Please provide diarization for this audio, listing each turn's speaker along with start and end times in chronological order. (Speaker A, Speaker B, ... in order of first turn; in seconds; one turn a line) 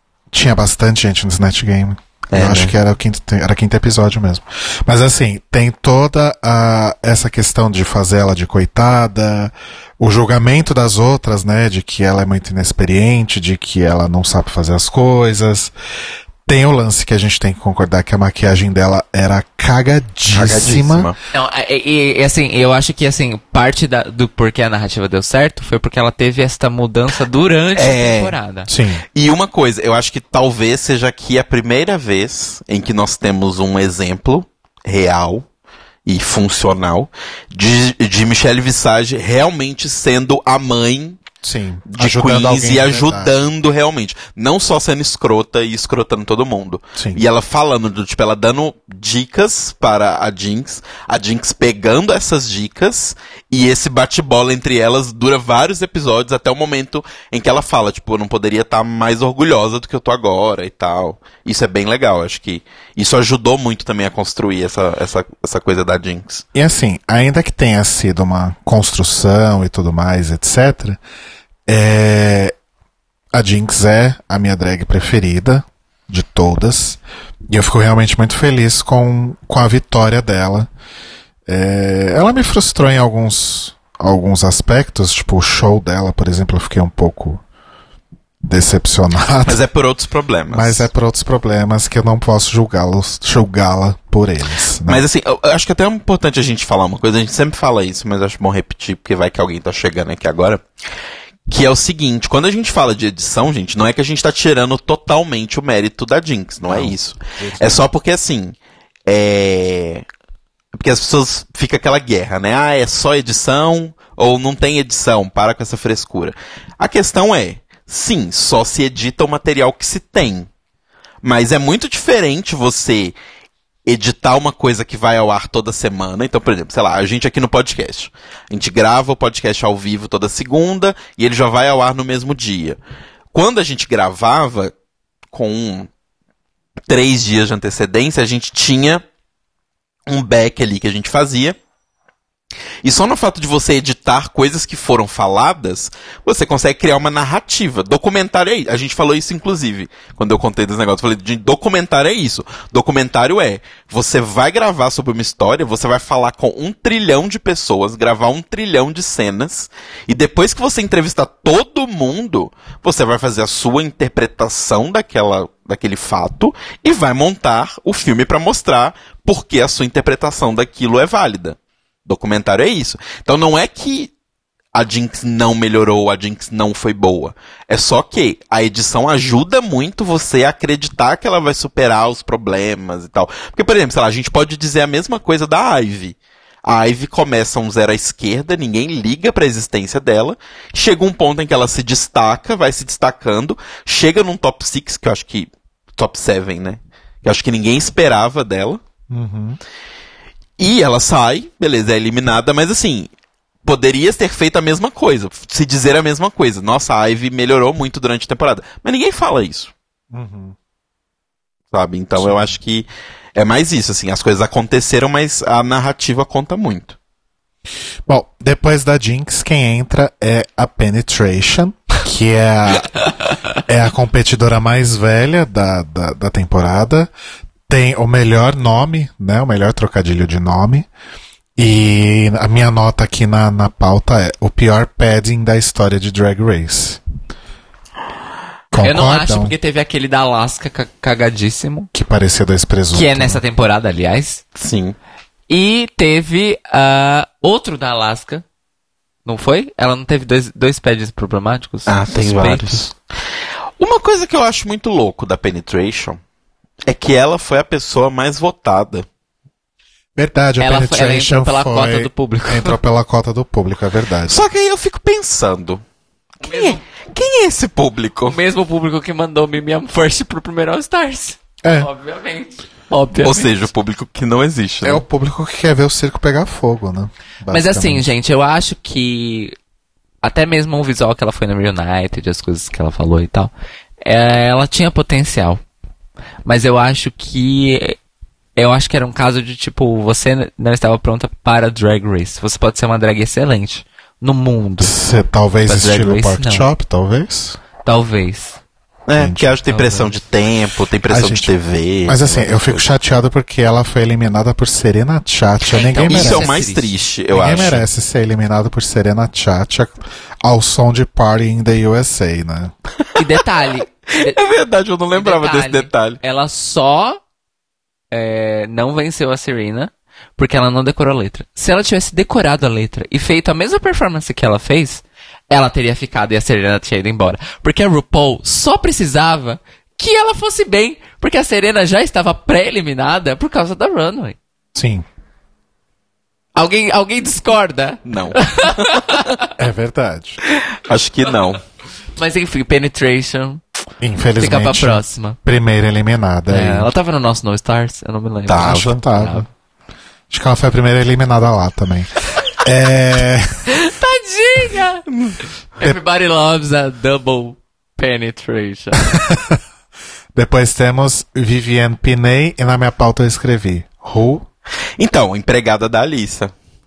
Speaker A: 0.3-15.7
Speaker B: 2.3-2.7
Speaker A: 16.5-21.1
Speaker B: 20.3-21.2
Speaker C: 21.3-28.7
Speaker B: 27.8-28.4
Speaker A: 28.7-29.0
Speaker B: 29.1-35.5
Speaker B: 36.0-41.2
Speaker A: 41.4-43.4
Speaker B: 41.9-66.5
Speaker A: 47.0-47.2
Speaker A: 66.5-71.0
Speaker A: 71.7-72.5
Speaker A: 73.3-80.7
Speaker A: 81.5-87.4
Speaker A: 88.4-89.6
Speaker B: 89.5-90.9
Speaker A: 90.5-95.0
Speaker B: 94.9-100.6
Speaker B: 101.5-108.6
Speaker A: 106.7-107.9
Speaker B: 109.1-110.1
Speaker B: 110.7-120.5
Speaker B: 121.2-123.2
Speaker B: 123.9-132.8
Speaker B: 133.3-134.7
Speaker B: 135.3-135.9
Speaker B: 136.9-139.0
Speaker B: 140.1-141.6
Speaker B: 142.8-174.1
Speaker B: 174.7-198.8
Speaker A: 199.1-199.6
Speaker B: 200.6-203.1
Speaker B: 203.7-209.7
Speaker A: 210.1-210.6
Speaker B: 211.7-217.0
Speaker A: 212.2-212.6
Speaker A: 218.1-222.9
Speaker A: 223.7-227.1
Speaker A: 227.7-230.9
Speaker A: 231.6-237.0
Speaker A: 238.7-239.6
Speaker C: 238.8-241.9
Speaker A: 241.9-243.4
Speaker C: 242.9-244.4
Speaker B: 244.6-245.0
Speaker C: 245.5-248.4
Speaker C: 249.2-252.8
Speaker B: 251.9-252.9
Speaker B: 253.8-256.2
Speaker B: 256.9-259.1
Speaker A: 260.2-264.4
Speaker C: 260.6-262.8
Speaker B: 264.3-265.8
Speaker B: 266.4-268.4
Speaker C: 266.4-266.8
Speaker C: 268.3-273.6
Speaker A: 271.6-271.9
Speaker B: 273.2-275.0
Speaker A: 274.8-278.1
Speaker C: 277.5-279.6
Speaker C: 280.2-283.5
Speaker C: 284.0-285.6
Speaker C: 286.4-288.0
Speaker C: 288.6-294.9
Speaker A: 294.8-297.6
Speaker C: 295.7-296.7
Speaker C: 297.9-298.6
Speaker B: 299.1-302.9
Speaker A: 299.2-299.5
Speaker C: 299.7-300.1
Speaker A: 301.1-301.5
Speaker A: 302.1-306.5
Speaker C: 305.6-306.9
Speaker B: 306.1-307.8
Speaker A: 307.3-312.7
Speaker C: 307.4-307.8
Speaker C: 313.2-314.4
Speaker B: 314.1-316.2
Speaker C: 315.1-317.2
Speaker C: 318.1-334.4
Speaker A: 334.7-335.1
Speaker C: 336.6-339.5
Speaker B: 338.1-339.2
Speaker A: 339.6-340.4
Speaker B: 340.8-341.6
Speaker C: 342.2-343.6
Speaker A: 344.0-346.9
Speaker C: 344.4-345.4
Speaker C: 346.5-349.5
Speaker B: 348.5-348.9
Speaker A: 348.6-349.5
Speaker A: 350.3-353.6
Speaker C: 353.7-355.1
Speaker B: 355.1-355.4
Speaker C: 355.8-359.1
Speaker A: 359.1-359.6
Speaker A: 360.4-364.5
Speaker B: 365.0-366.5